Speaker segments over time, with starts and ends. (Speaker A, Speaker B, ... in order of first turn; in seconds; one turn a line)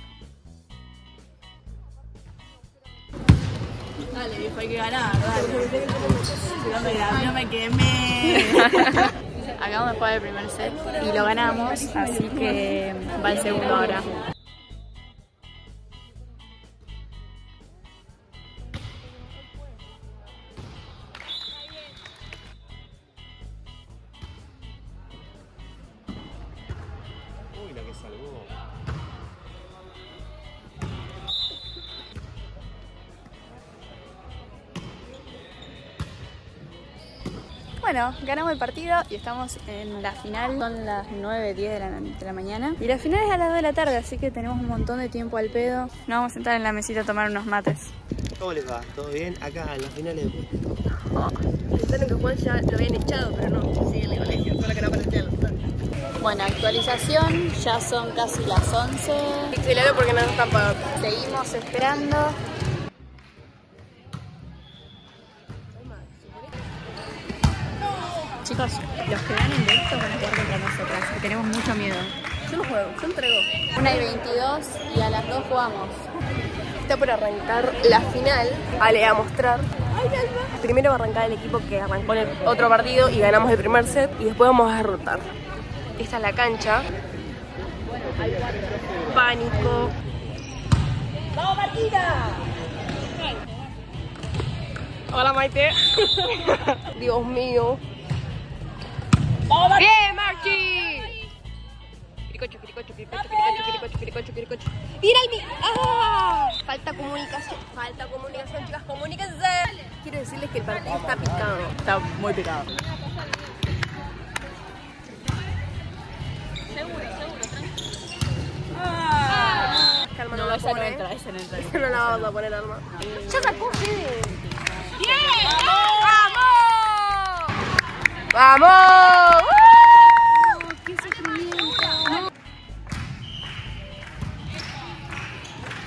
Speaker A: 4.1-14.1
Speaker B: 5.6-6.9
Speaker C: 28.0-28.5
Speaker A: 37.8-47.9
Speaker C: 48.4-50.5
Speaker B: 51.7-55.5
Speaker A: 56.2-59.6
Speaker B: 59.5-60.9
Speaker A: 61.0-62.4
Speaker A: 68.4-76.0
Speaker B: 76.8-85.3
Speaker B: 86.0-86.9
Speaker B: 89.1-89.9
Speaker B: 91.6-92.2
Speaker B: 95.1-97.8
Speaker B: 99.5-101.2
Speaker B: 102.3-111.9
Speaker A: 111.9-112.7
Speaker B: 118.8-127.3
Speaker A: 120.6-122.2
Speaker B: 128.3-132.2